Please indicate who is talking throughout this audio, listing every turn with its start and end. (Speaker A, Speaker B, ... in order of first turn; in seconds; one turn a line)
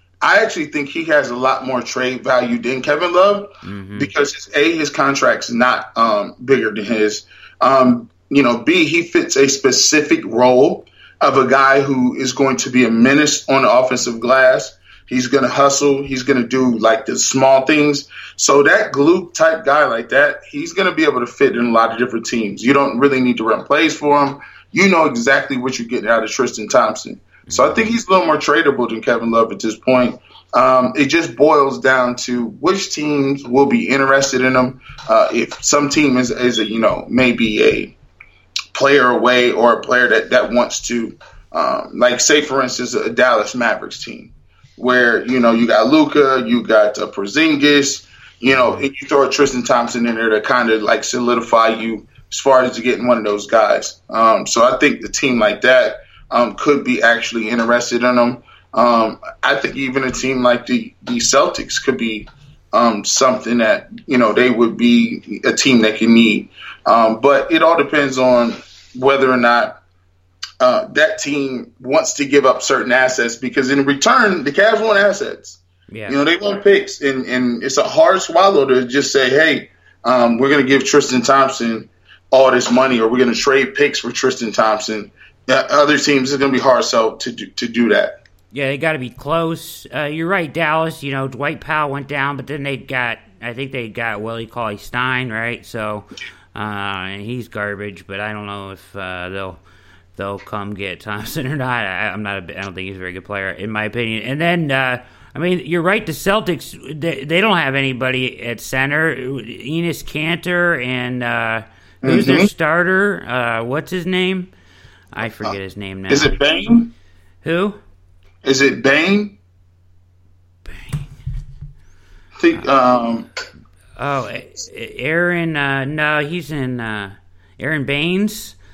Speaker A: 0.2-38.0
Speaker B: 3.6-4.1
Speaker B: 27.5-27.9
Speaker A: 38.7-69.8
Speaker B: 48.5-48.8
Speaker A: 70.6-88.2
Speaker B: 75.9-76.2
Speaker B: 88.5-99.6
Speaker B: 100.2-114.5
Speaker A: 112.0-112.5
Speaker B: 115.1-116.4
Speaker A: 115.2-115.5
Speaker A: 116.1-116.9
Speaker B: 117.4-117.8
Speaker A: 118.4-119.4
Speaker B: 120.7-121.0
Speaker A: 122.4-123.3
Speaker B: 124.0-128.6